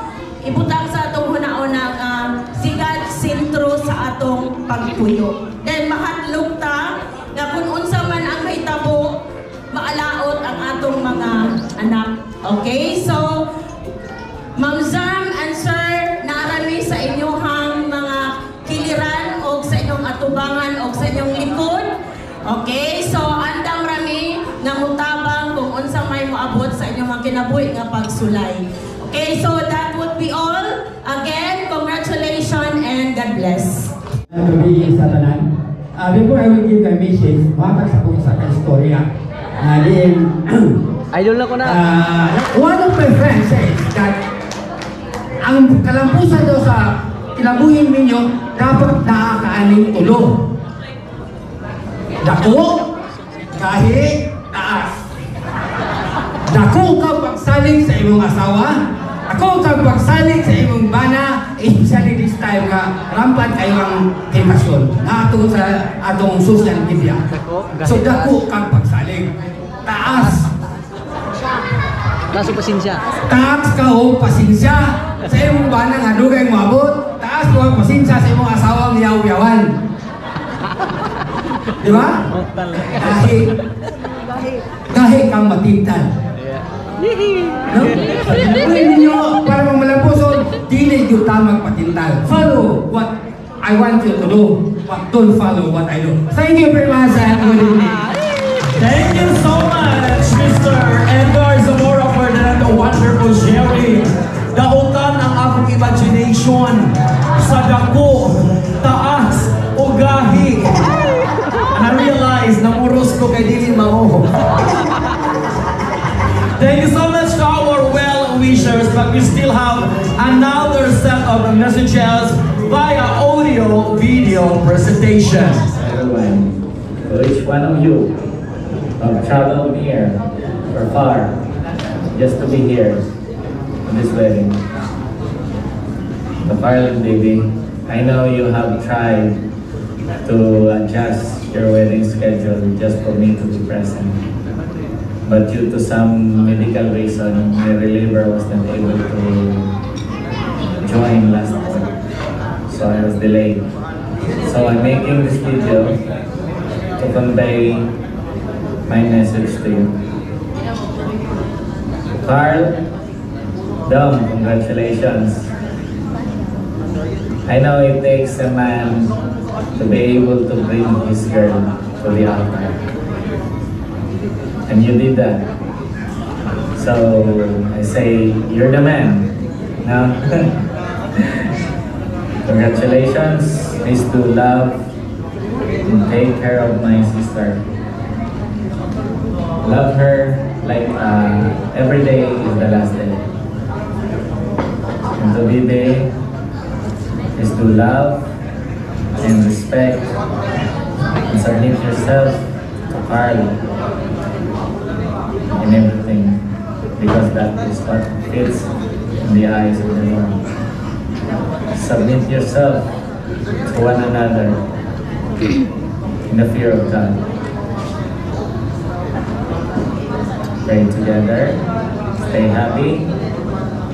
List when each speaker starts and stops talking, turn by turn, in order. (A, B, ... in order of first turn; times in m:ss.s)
0:00.4-0:09.2 A
0:09.7-0:13.4 A
0:14.6-0:21.9 A
0:22.5-0:33.9 A
0:34.3-0:39.1 B
0:39.6-0:40.8 B
0:41.1-0:41.8 C
0:41.6-0:44.2 B
0:45.4-0:50.4 B
0:52.2-0:52.9 B
0:53.5-0:55.0 B
0:56.5-1:07.2 B
1:07.3-1:08.4 C
1:07.8-1:09.3 B
1:09.8-1:10.5 B
1:12.3-1:13.0 C
1:13.3-1:19.7 B
1:21.8-1:22.2 B
1:22.3-1:23.4 C
1:23.0-1:23.5 B
1:24.9-1:26.1 B
1:27.4-1:28.0 C
1:27.7-1:38.0 B
1:38.8-1:50.8 D
1:51.7-1:54.3 D
1:56.6-2:05.6 D
2:05.7-2:06.5 E
2:07.1-2:08.2 E
2:09.0-2:10.2 E
2:10.7-2:11.4 E
2:12.1-2:13.1 E
2:13.8-2:14.6 E
2:16.4-2:19.4 E
2:20.2-2:24.2 E
2:25.2-2:29.7 E
2:30.8-2:31.9 E
2:32.7-2:33.6 E
2:34.4-2:36.0 E
2:37.0-2:37.9 E
2:38.9-2:40.0 E
2:42.2-2:42.8 E
2:43.8-2:45.5 E
2:47.4-2:49.1 E
2:49.8-2:52.8 E
2:54.7-2:55.5 E
2:56.8-2:59.3 E
2:59.8-3:00.5 E
3:01.2-3:01.4 E
3:02.4-3:04.8 E
3:05.8-3:07.6 E
3:09.6-3:13.2 E
3:15.2-3:16.1 E
3:17.4-3:18.2 E
3:19.2-3:20.1 E
3:21.3-3:23.6 E
3:25.6-3:26.4 E
3:27.0-3:30.4 E
3:31.7-3:32.9 E
3:33.6-3:34.6 E
3:36.3-3:37.2 E
3:40.6-3:41.6 E
3:42.2-3:43.1 E